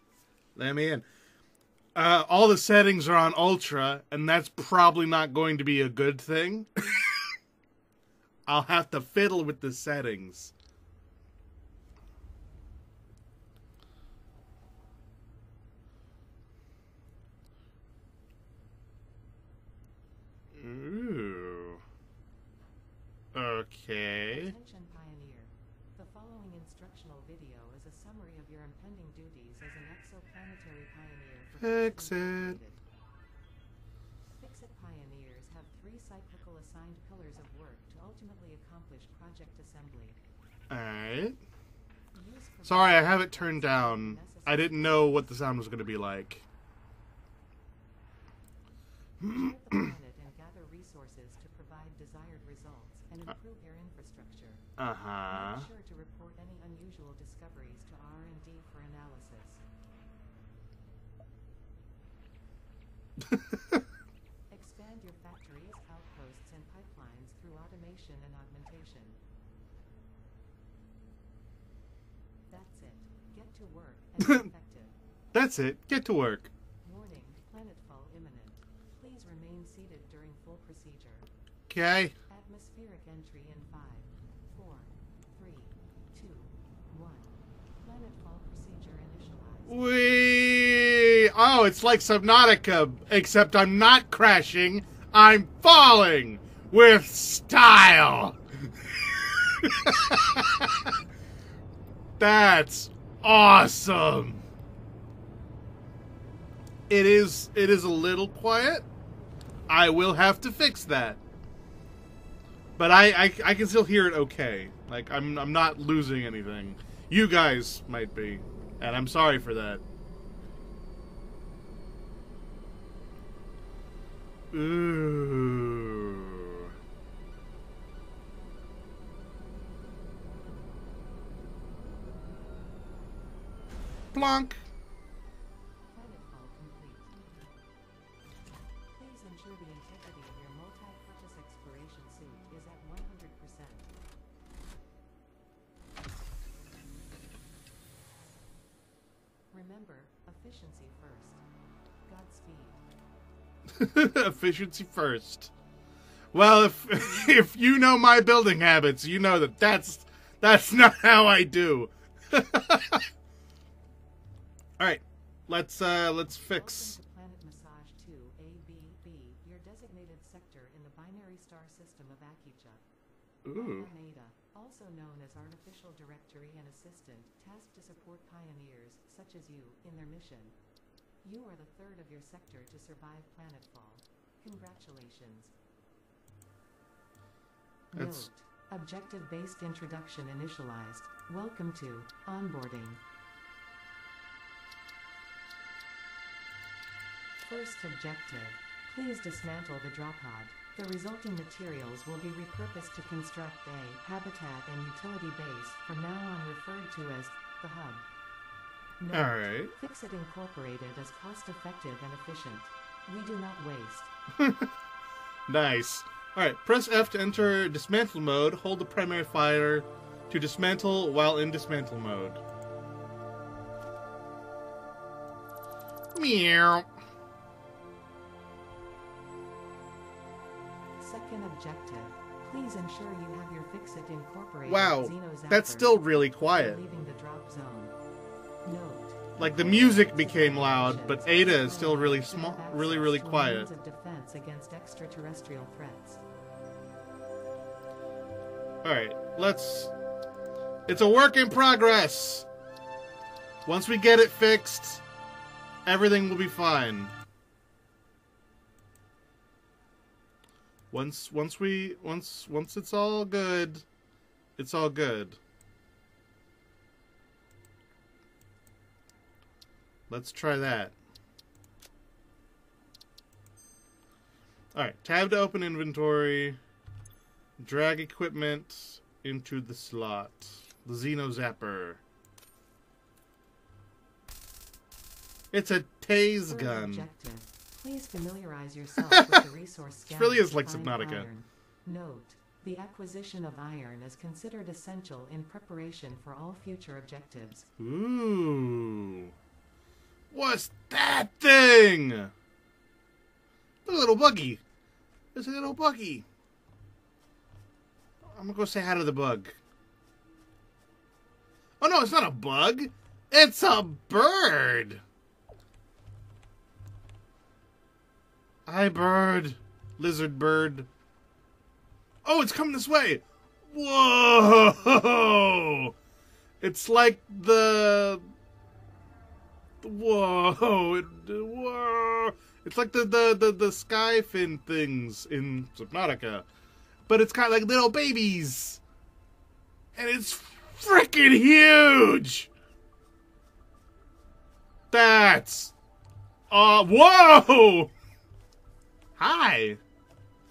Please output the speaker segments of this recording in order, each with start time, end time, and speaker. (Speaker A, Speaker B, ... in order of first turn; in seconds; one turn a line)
Speaker A: 0.5-1.0
Speaker A: 1.9-6.7
Speaker A: 8.5-10.5
Speaker A: 20.5-21.8
Speaker A: 23.3-24.5
Speaker B: 24.3-32.8
Speaker A: 31.6-32.6
Speaker B: 34.3-40.2
Speaker A: 40.7-41.4
Speaker B: 42.1-45.4
Speaker A: 42.6-46.5
Speaker A: 49.2-49.9
Speaker B: 49.2-54.6
Speaker A: 54.8-55.7
Speaker B: 55.3-59.6
Speaker A: 63.3-63.8
Speaker B: 64.5-69.2
Speaker B: 72.5-74.9
Speaker A: 74.2-74.5
Speaker A: 75.3-76.5
Speaker B: 76.8-81.3
Speaker A: 81.7-82.1
Speaker B: 82.3-89.8
Speaker A: 89.7-98.4
Speaker A: 99.4-100.9
Speaker A: 102.2-104.4
Speaker A: 106.9-108.8
Speaker A: 109.7-111.2
Speaker A: 112.8-119.8
Speaker A: 124.5-126.7
Speaker A: 134.1-134.6
Speaker B: 135.9-137.1
Speaker B: 138.9-143.9
Speaker B: 149.5-151.4
Speaker B: 152.1-152.8
Speaker A: 153.7-155.5
Speaker A: 156.3-163.0
Speaker A: 164.8-167.0
Speaker B: 166.3-172.8
Speaker A: 173.4-173.9
Speaker B: 173.5-180.6
Speaker B: 181.2-185.5
Speaker A: 187.9-188.3
Speaker B: 187.9-193.0
Speaker B: 197.4-208.1
Speaker B: 209.0-214.1
Speaker A: 209.1-209.7
Speaker A: 214.4-214.7
Speaker A: 215.5-222.4
Speaker A: 226.1-226.9
Speaker B: 231.0-237.9
Speaker A: 234.7-236.8
Speaker B: 238.6-246.2
Speaker A: 239.4-243.7
Speaker A: 248.8-249.9
Speaker A: 250.9-252.5
Speaker A: 253.7-255.0
Speaker A: 255.8-257.1
Speaker A: 260.9-263.8
Speaker A: 264.6-265.4
Speaker A: 270.1-270.9
Speaker A: 274.7-276.6
Speaker A: 277.6-282.0
Speaker A: 285.5-287.1
Speaker B: 286.4-297.7
Speaker A: 289.1-289.4
Speaker A: 290.1-291.3
Speaker A: 297.8-299.3
Speaker A: 300.3-302.3
Speaker A: 303.9-304.6
Speaker A: 305.3-306.2
Speaker A: 308.2-309.6
Speaker A: 311.8-315.0
Speaker A: 318.6-320.9
Speaker A: 322.2-325.9
Speaker A: 326.6-328.3
Speaker A: 329.8-336.4
Speaker A: 337.1-338.8
Speaker A: 339.9-342.5
Speaker A: 344.9-345.7
Speaker A: 346.5-347.9
Speaker A: 349.2-349.8